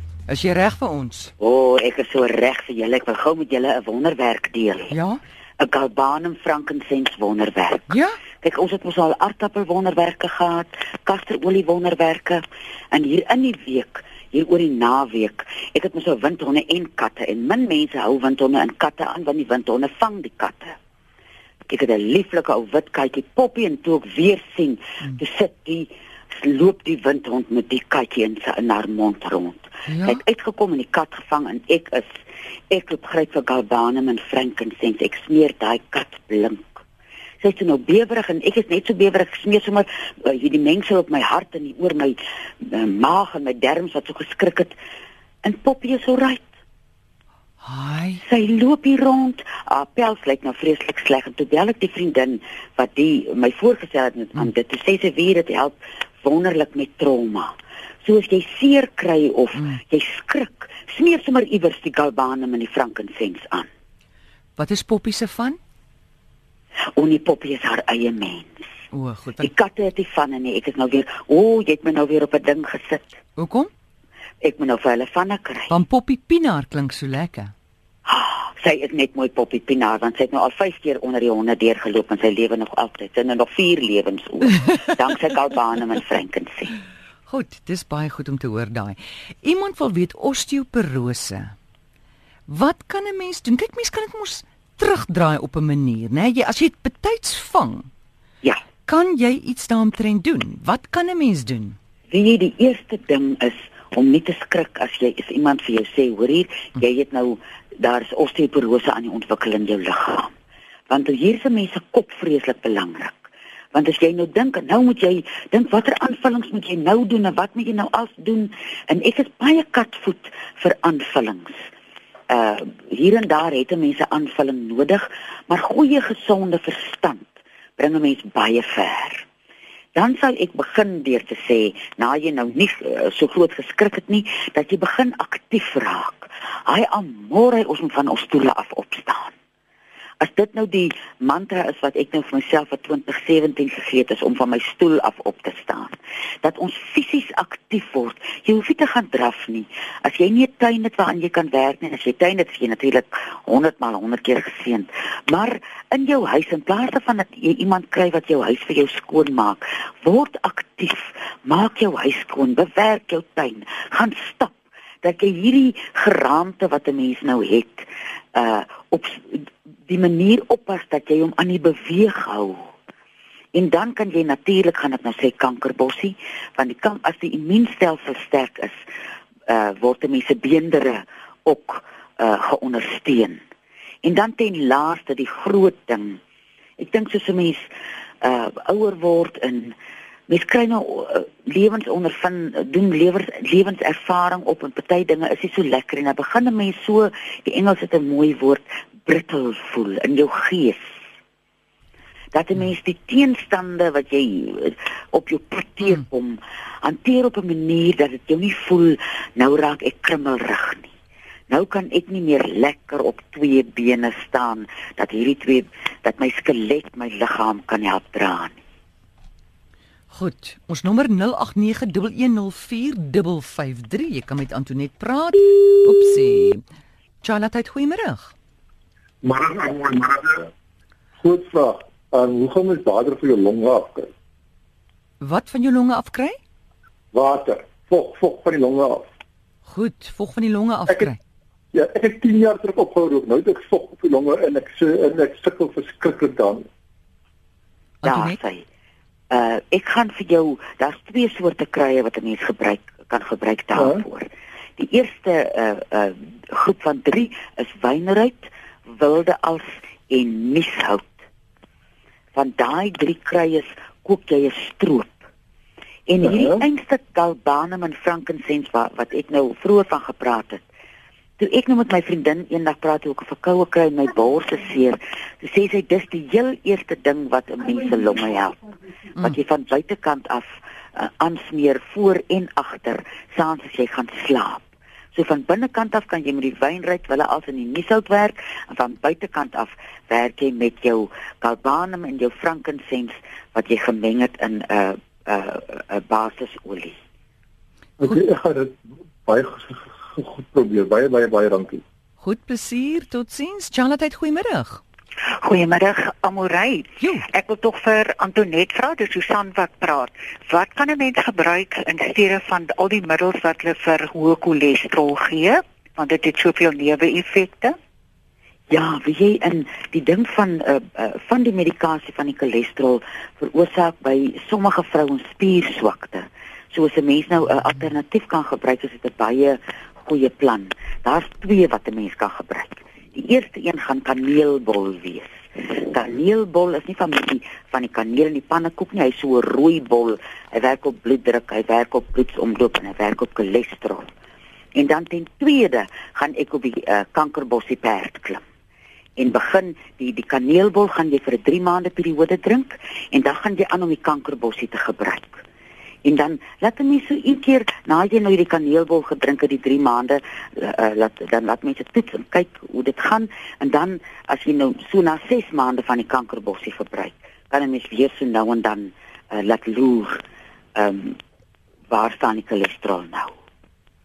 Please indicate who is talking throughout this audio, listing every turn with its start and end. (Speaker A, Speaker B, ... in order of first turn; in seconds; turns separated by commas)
Speaker A: 0.3-1.3, Speaker B: 1.4-4.9, Speaker A: 4.9-5.2, Speaker B: 5.6-7.9, Speaker A: 7.9-8.2, Speaker B: 8.4-20.7, Speaker B: 21.7-32.2, Speaker A: 29.9-30.2, Speaker B: 32.7-36.8, Speaker B: 37.4-44.7, Speaker B: 45.4-46.5, Speaker A: 47.6-48.2, Speaker B: 48.2-63.7, Speaker A: 64.5-65.6, Speaker B: 67.0-68.6, Speaker A: 68.9-69.5, Speaker B: 69.4-73.2, Speaker A: 73.3-73.7, Speaker B: 74.4-75.7, Speaker A: 75.7-77.5, Speaker B: 78.1-86.7, Speaker A: 87.3-91.5, Speaker A: 92.5-97.9, Speaker A: 98.8-101.8, Speaker B: 102.1-110.3, Speaker B: 110.9-121.5, Speaker B: 122.3-129.2, Speaker B: 129.9-139.3, Speaker B: 140.2-172.7, Speaker B: 173.5-178.8, Speaker B: 179.5-183.4, Speaker B: 184.0-186.2, Speaker B: 186.8-187.7, Speaker B: 188.2-189.8, Speaker B: 190.3-200.9, Speaker B: 202.3-210.9, Speaker B: 211.5-218.6, Speaker A: 220.1-226.6, Speaker A: 227.2-228.3, Speaker C: 229.2-230.5, Speaker C: 231.2-234.1, Speaker A: 235.2-236.4, Speaker C: 237.1-239.1, Speaker A: 239.6-241.2, Speaker C: 241.7-246.7, Speaker A: 248.0-248.4, Speaker B: 248.0-248.6, Speaker B: 249.3-261.2, Speaker C: 253.8-254.0, Speaker B: 262.3-265.2, Speaker B: 266.1-270.6, Speaker B: 271.4-278.6, Speaker B: 279.1-280.4, Speaker B: 280.9-296.9, Speaker C: 298.0-301.8, Speaker A: 302.2-304.8, Speaker D: 305.3-317.8, Speaker A: 307.0-307.3, Speaker B: 318.7-344.1, Speaker B: 344.8-348.4, Speaker B: 349.2-355.4, Speaker B: 356.0-370.2, Speaker B: 370.8-371.2, Speaker B: 371.9-373.3